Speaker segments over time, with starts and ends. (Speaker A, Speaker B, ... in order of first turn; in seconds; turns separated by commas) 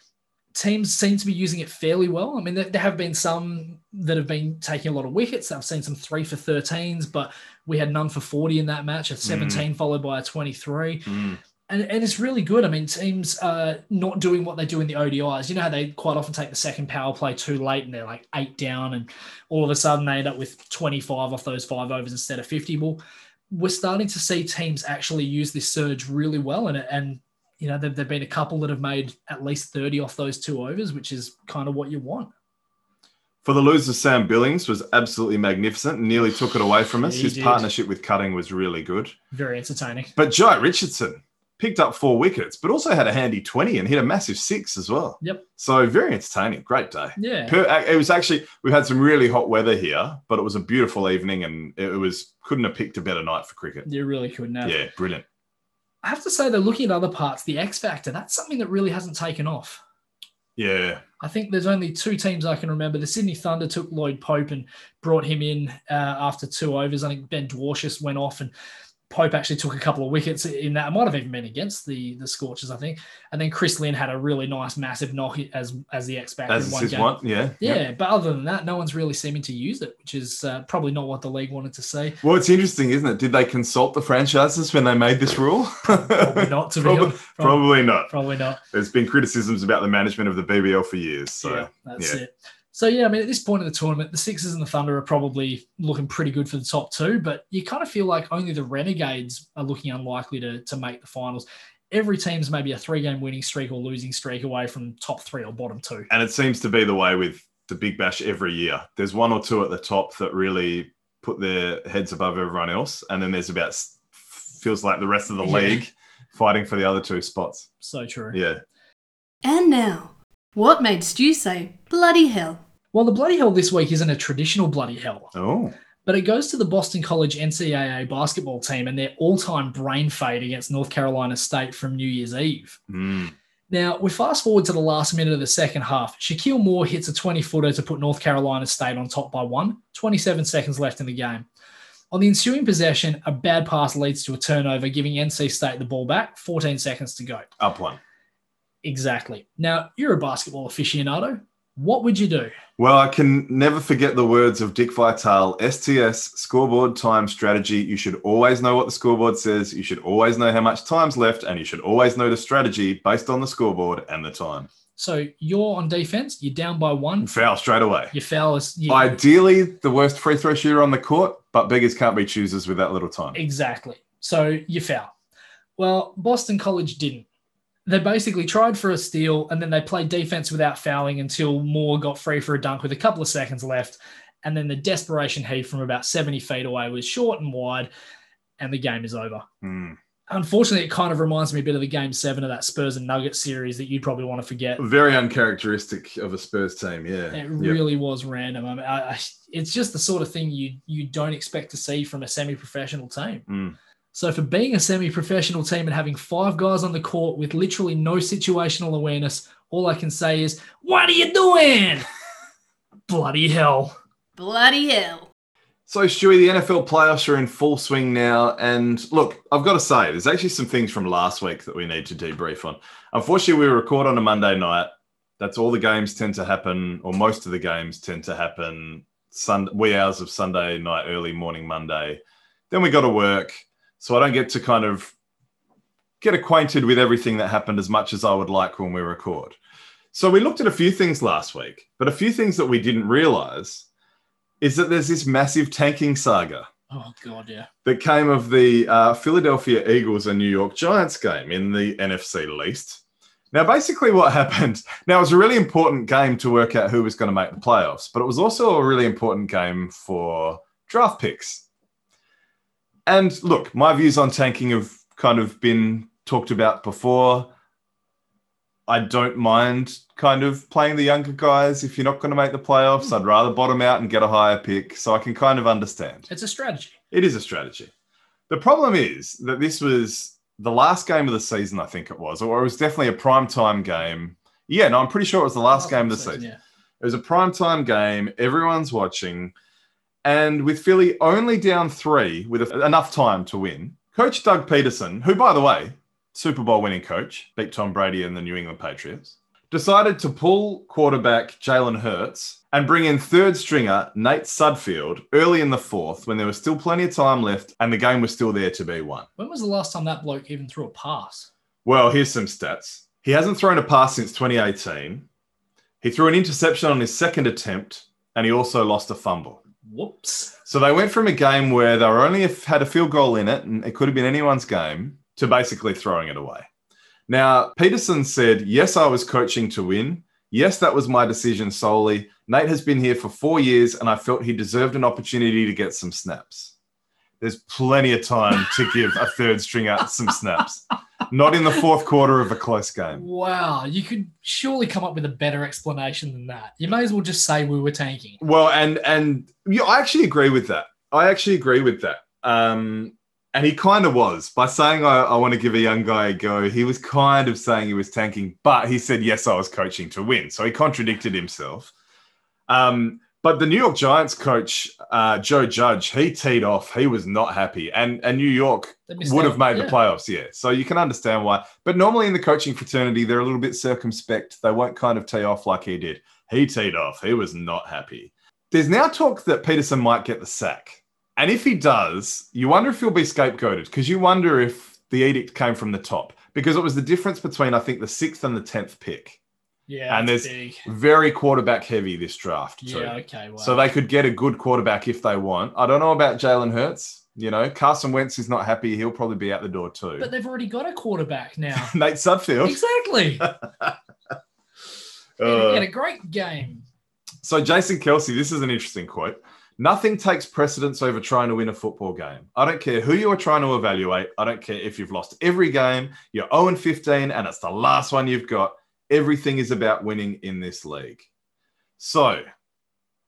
Speaker A: 0.5-11.1, Speaker B: 9.2-9.7, Speaker B: 11.1-11.4, Speaker A: 11.7-32.3, Speaker B: 33.4-39.1, Speaker A: 37.0-37.7, Speaker A: 39.3-40.1, Speaker B: 40.1-53.9, Speaker A: 47.2-47.5, Speaker A: 53.9-54.8, Speaker B: 54.6-55.2, Speaker A: 56.0-59.8, Speaker B: 60.5-61.0, Speaker A: 61.2-68.5, Speaker A: 69.1-82.2, Speaker B: 76.5-77.8, Speaker B: 82.2-88.1, Speaker A: 85.8-88.6, Speaker B: 88.7-92.2, Speaker A: 91.4-106.1, Speaker B: 106.1-117.7, Speaker A: 115.4-115.8, Speaker A: 117.8-118.4, Speaker B: 118.3-118.6, Speaker C: 119.4-122.6, Speaker A: 122.9-125.3, Speaker B: 125.3-125.7, Speaker A: 126.0-132.8, Speaker B: 132.9-133.3, Speaker A: 133.7-141.5, Speaker A: 142.1-147.5, Speaker B: 147.6-148.0, Speaker A: 148.8-152.5, Speaker B: 152.8-164.7, Speaker A: 165.0-167.3, Speaker B: 167.2-168.1, Speaker A: 168.1-169.1, Speaker B: 168.9-173.4, Speaker A: 173.3-175.1, Speaker A: 175.8-177.2, Speaker A: 177.8-187.9, Speaker A: 188.6-189.4, Speaker B: 189.6-190.0, Speaker A: 190.3-194.8, Speaker B: 194.8-197.8, Speaker A: 197.3-203.4, Speaker B: 203.5-203.8, Speaker A: 204.1-212.1, Speaker A: 213.1-213.9, Speaker C: 214.4-215.3, Speaker B: 215.9-235.1, Speaker B: 236.2-239.6, Speaker B: 240.1-243.8, Speaker B: 244.6-246.7, Speaker A: 246.9-247.7, Speaker B: 247.8-253.0, Speaker B: 253.5-261.6, Speaker B: 263.1-267.5, Speaker B: 268.9-276.3, Speaker A: 276.3-276.9, Speaker B: 277.1-277.9, Speaker B: 278.5-286.4, Speaker A: 285.7-286.6, Speaker B: 287.0-289.5, Speaker B: 290.2-309.3, Speaker A: 309.4-311.5, Speaker B: 311.8-315.3, Speaker B: 316.0-319.6, Speaker A: 319.8-320.5, Speaker B: 320.6-326.7, Speaker B: 327.3-336.7, Speaker B: 337.4-343.2, Speaker A: 343.1-348.4, Speaker B: 348.4-361.9, Speaker B: 362.7-389.4, Speaker A: 369.1-370.0, Speaker A: 389.9-390.8, Speaker B: 390.1-400.3, Speaker A: 392.8-393.8, Speaker A: 400.2-401.9, Speaker B: 401.7-402.8, Speaker A: 402.6-403.4, Speaker B: 403.4-403.9, Speaker B: 405.4-405.9, Speaker A: 405.4-406.8, Speaker B: 407.4-421.3, Speaker B: 422.0-422.4